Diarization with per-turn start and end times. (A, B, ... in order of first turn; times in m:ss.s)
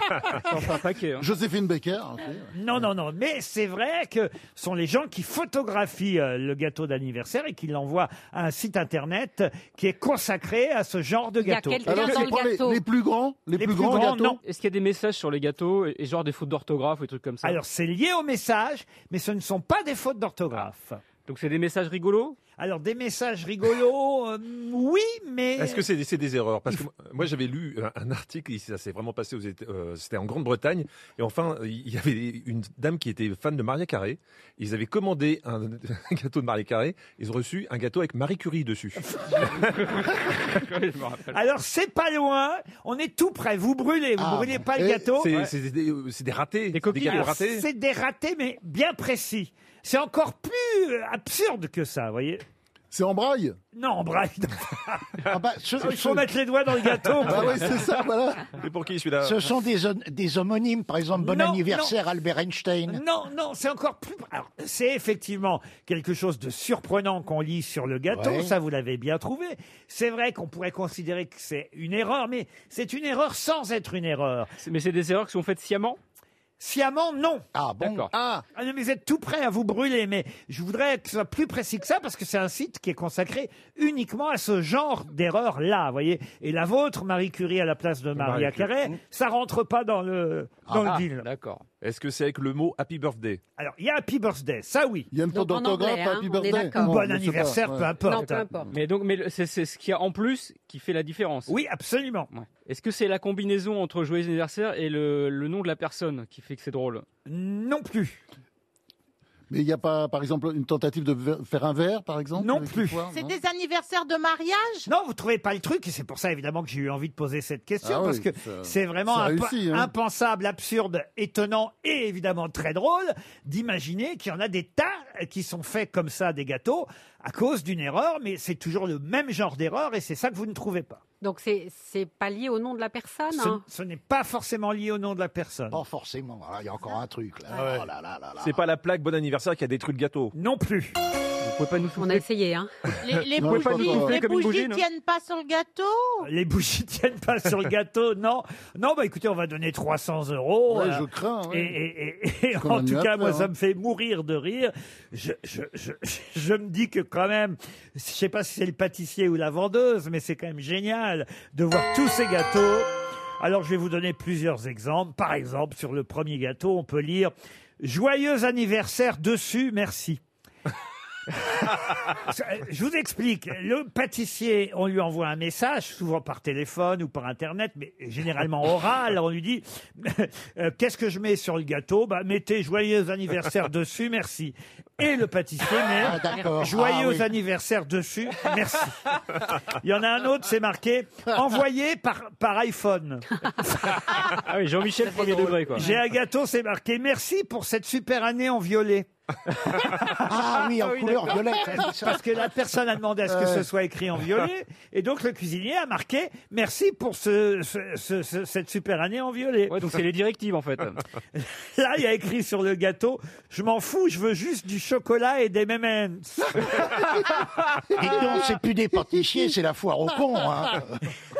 0:00.4-0:01.2 A
0:01.2-0:02.5 B
0:02.5-0:12.2 C
0:11.4-0:12.8 D
0:11.8-0:14.4 B
0:13.6-0:14.4 C
0:14.4-0:17.6 A
0:17.4-0:21.0 C
0:21.2-0:22.4 A
0:22.6-0:25.9 C
0:25.6-0:39.0 E
0:39.6-0:41.4 A
0:41.3-0:45.3 C
0:44.2-0:45.1 B
0:45.2-0:47.6 E
0:46.7-0:47.4 A
0:47.0-0:52.4 C
0:52.9-0:53.6 B
0:53.7-0:55.1 C
0:55.2-0:56.3 F
0:55.8-0:57.7 C
0:57.2-0:58.5 B
0:58.6-0:59.5 E
0:59.2-1:03.0 F
1:01.2-1:01.9 C
1:02.9-1:14.5 C
1:08.1-1:08.5 F
1:14.6-1:16.0 A
1:16.6-1:17.4 C
1:17.6-1:18.1 F
1:17.8-1:18.1 A
1:18.6-1:31.2 C
1:28.2-1:28.6 E
1:31.8-1:33.4 E
1:33.6-1:35.1 C
1:35.1-1:38.3 B
1:35.3-1:37.0 D
1:36.7-1:38.5 C
1:38.0-1:38.7 D
1:38.7-1:41.5 A
1:41.5-1:42.3 C
1:42.3-1:47.0 A
1:47.3-1:48.2 C
1:49.5-1:53.4 B
1:52.4-1:53.1 C
1:53.1-1:54.9 G
1:54.9-2:11.0 C
1:57.8-1:59.9 B
2:11.2-2:13.6 D
2:13.3-2:15.8 C
2:15.7-2:18.6 F
2:18.4-2:20.3 E
2:20.3-2:20.9 C
2:21.4-2:22.2 A
2:22.0-2:22.7 D
2:23.0-2:26.3 G
2:23.4-2:24.2 B
2:23.5-2:24.8 A
2:26.2-2:42.9 C
2:30.7-2:31.8 B
2:32.6-2:33.5 B
2:43.4-2:50.2 C
2:51.5-3:14.3 C
3:05.9-3:07.3 F
3:14.4-3:15.9 A
3:15.7-3:19.1 C
3:20.1-3:22.4 F
3:20.8-3:21.3 A
3:22.0-3:29.8 C
3:29.7-3:31.0 A
3:31.4-3:36.9 C
3:38.0-3:41.0 F